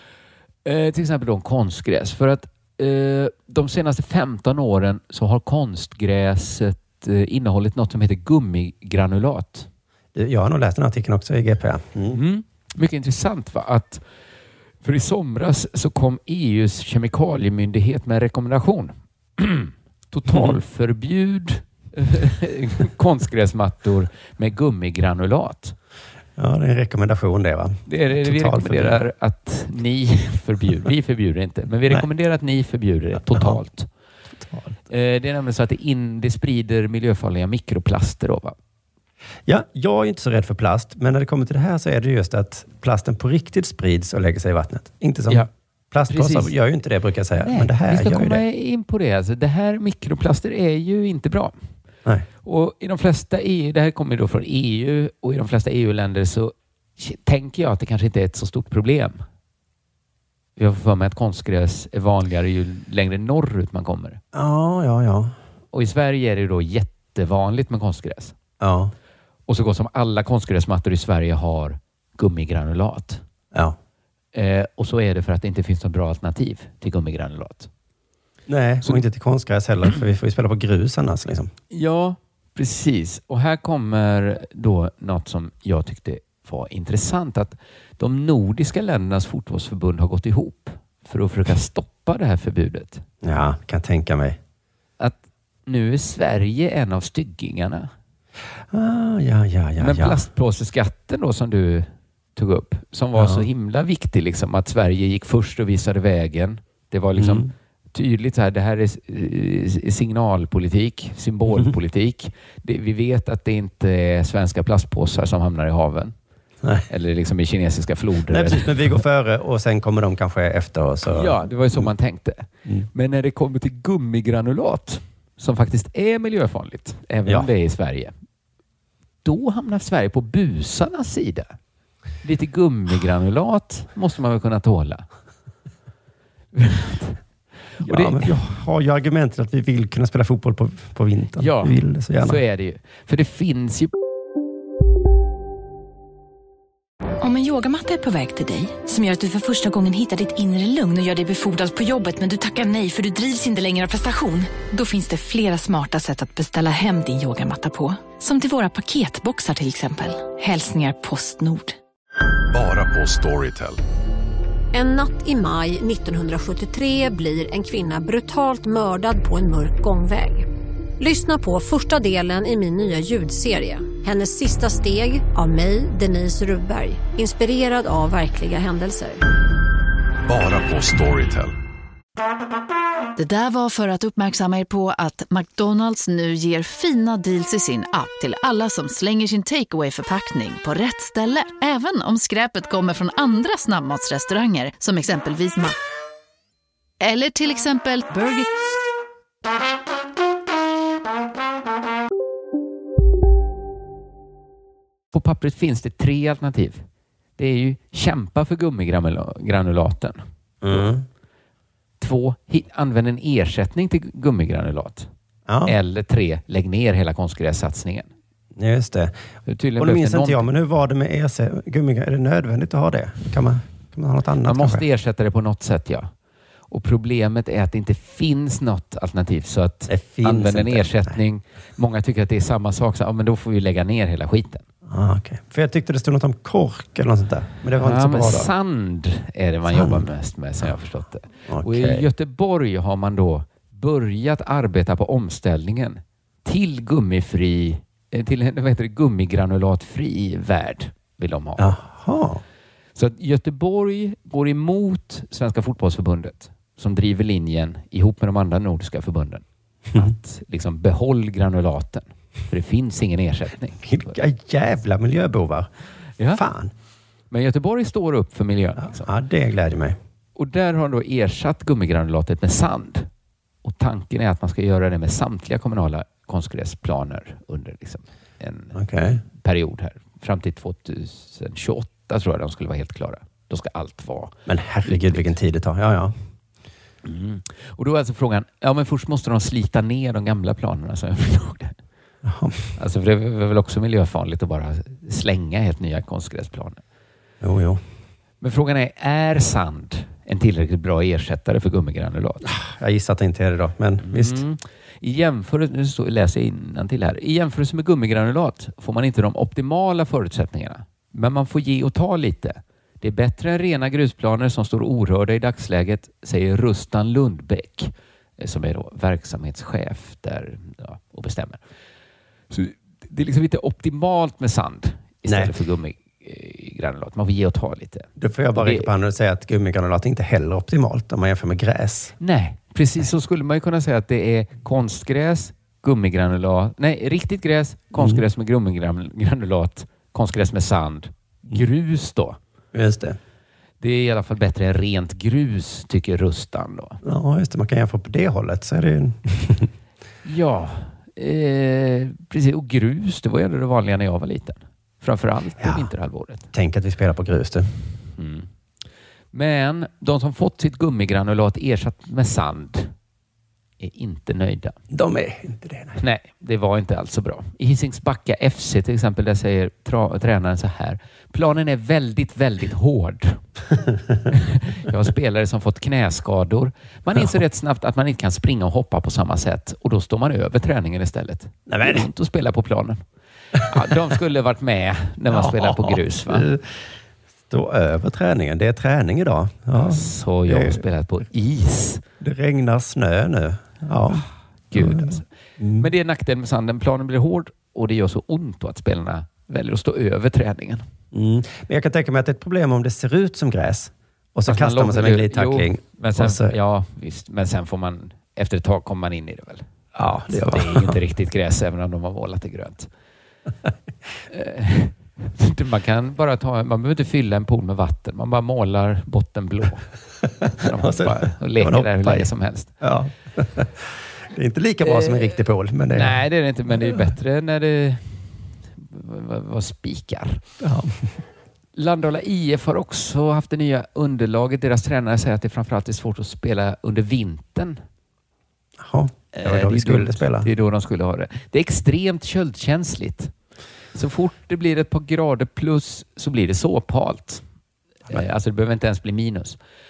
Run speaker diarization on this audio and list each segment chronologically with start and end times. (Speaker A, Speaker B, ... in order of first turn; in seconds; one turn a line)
Speaker A: 0.7-9.7
Speaker B: 10.2-12.2
Speaker A: 12.1-14.0
Speaker A: 14.8-25.8
Speaker B: 20.3-20.6
Speaker B: 26.4-29.0
Speaker A: 27.9-33.9
Speaker B: 33.2-33.6
Speaker B: 34.4-34.8
Speaker A: 34.9-38.6
Speaker B: 39.5-48.4
Speaker A: 46.1-46.5
Speaker A: 47.4-51.6
Speaker A: 52.4-59.2
Speaker A: 60.6-64.2
Speaker B: 64.3-65.3
Speaker A: 65.7-68.3
Speaker B: 68.6-68.9
Speaker A: 69.5-73.2
Speaker A: 74.3-77.7
Speaker B: 78.5-81.5
Speaker A: 81.7-93.0
Speaker B: 93.2-94.4
Speaker A: 95.0-97.9
Speaker B: 98.7-100.2
Speaker A: 99.8-116.1
Speaker B: 103.2-103.5
Speaker B: 107.2-107.5
Speaker A: 116.9-119.0
Speaker B: 118.3-121.9
Speaker A: 121.0-128.1
Speaker A: 129.2-131.5
Speaker A: 132.2-135.1
Speaker A: 136.5-137.2
Speaker A: 137.8-138.3
Speaker B: 137.8-142.4
Speaker A: 141.4-143.9
Speaker C: 147.2-161.8
Speaker D: 162.5-163.8
Speaker E: 164.7-170.5
Speaker E: 171.0-179.2
Speaker D: 180.3-181.5
Speaker F: 183.2-195.8
Speaker F: 197.0-198.5
Speaker A: 205.1-206.8
Speaker A: 207.4-210.8
Speaker B: 210.6-211.1
Speaker A: 212.0-215.1
Speaker B: 215.5-215.8
Speaker A: 215.7-218.1
Speaker B: 218.6-219.2
Speaker A: 219.5-220.5
Speaker B: 219.8-224.8
Speaker A: 224.4-226.1
Speaker A: 226.7-234.6
Speaker B: 229.9-231.2
Speaker B: 234.9-238.5
Speaker A: 237.8-251.8
Speaker B: 239.7-240.1
Speaker B: 241.5-242.1
Speaker B: 251.6-252.4
Speaker A: 253.0-264.2
Speaker B: 263.8-265.7
Speaker B: 266.3-266.7
Speaker A: 267.3-269.1
Speaker B: 268.8-270.0
Speaker A: 270.4-273.1
Speaker A: 273.6-285.3
Speaker B: 278.8-279.2
Speaker B: 284.5-286.1
Speaker A: 287.0-291.8
Speaker B: 292.2-292.7
Speaker A: 292.8-296.8
Speaker B: 297.4-297.8
Speaker A: 298.4-302.5
Speaker B: 302.4-304.4
Speaker A: 304.0-321.6
Speaker A: 322.5-328.9
Speaker B: 325.3-325.5
Speaker B: 328.2-332.1
Speaker A: 332.2-342.4
Speaker B: 337.9-338.2
Speaker B: 342.7-343.2
Speaker A: 343.8-347.0
Speaker B: 347.0-349.7
Speaker A: 350.2-356.5
Speaker B: 355.6-355.9
Speaker B: 356.5-357.7
Speaker A: 358.2-358.5
Speaker A: 359.3-362.9
Speaker A: 363.8-364.8
Speaker B: 364.9-366.0
Speaker A: 366.0-373.4
Speaker A: 374.3-383.0
Speaker B: 381.7-382.1
Speaker A: 383.6-386.5
Speaker B: 385.3-386.7
Speaker B: 387.5-390.9
Speaker A: 389.7-392.0
Speaker B: 392.2-395.9
Speaker A: 394.1-395.2
Speaker A: 395.8-400.9
Speaker B: 401.1-406.6
Speaker A: 404.5-409.6
Speaker B: 409.9-411.0
Speaker A: 410.3-412.9
Speaker A: 414.3-419.9
Speaker B: 420.4-427.0
Speaker A: 420.5-422.7
Speaker A: 424.8-425.4
Speaker A: 425.9-430.4
Speaker B: 430.6-431.0
Speaker A: 431.8-437.8
Speaker B: 438.8-440.5
Speaker A: 439.3-443.3
Speaker A: 443.9-447.4
Speaker A: 448.1-449.6